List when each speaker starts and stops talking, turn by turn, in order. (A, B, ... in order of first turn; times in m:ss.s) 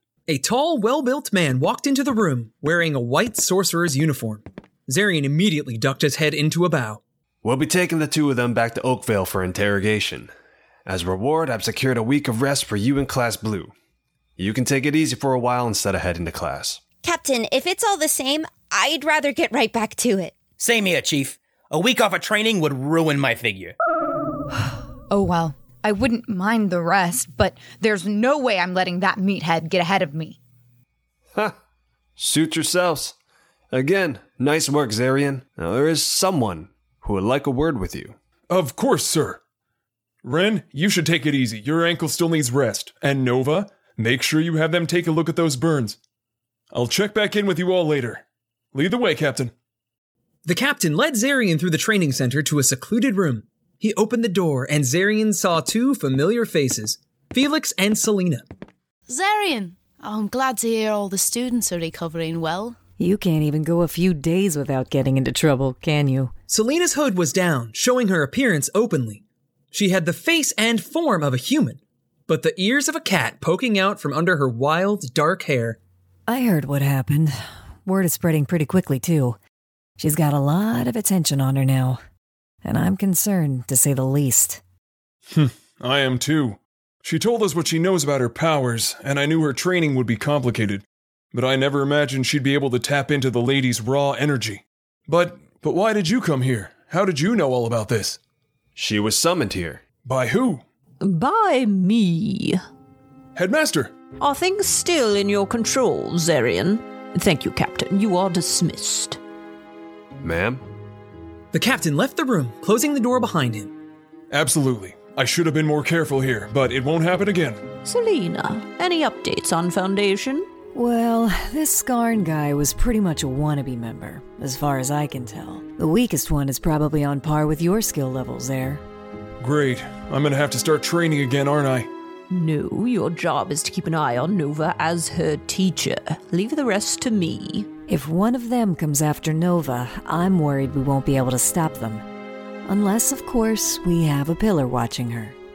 0:00.3-0:07.0 A
0:07.4-0:10.3 B
0:10.8-0:13.7 B
0:14.4-0:16.8 B
0:17.0-0:20.4 C
0:20.6-0:23.7 D
0:25.1-0:30.4 E
0:32.2-0:33.2 B
0:33.7-0:38.2 B
0:38.5-0:39.4 F
0:40.2-0:46.0 F
0:46.7-0:49.5 F
0:50.4-0:58.4 A
0:59.1-1:02.8 G
1:03.0-1:06.3 H
1:06.5-1:15.8 A
1:16.3-1:19.4 H
1:20.0-1:22.0 H
1:22.6-1:24.6 H
1:25.3-1:38.2 F
1:38.8-1:39.9 B
1:40.0-1:40.6 F
1:41.0-1:42.6 I
1:43.3-1:43.9 F
1:44.2-1:49.2 I
1:50.2-1:50.6 B
1:51.5-1:53.7 A
1:54.3-1:57.6 F
1:57.8-2:00.5 I
2:00.7-2:08.8 H
2:09.4-2:11.9 F
2:12.3-2:17.7 I
2:17.9-2:22.0 H
2:22.6-2:25.4 H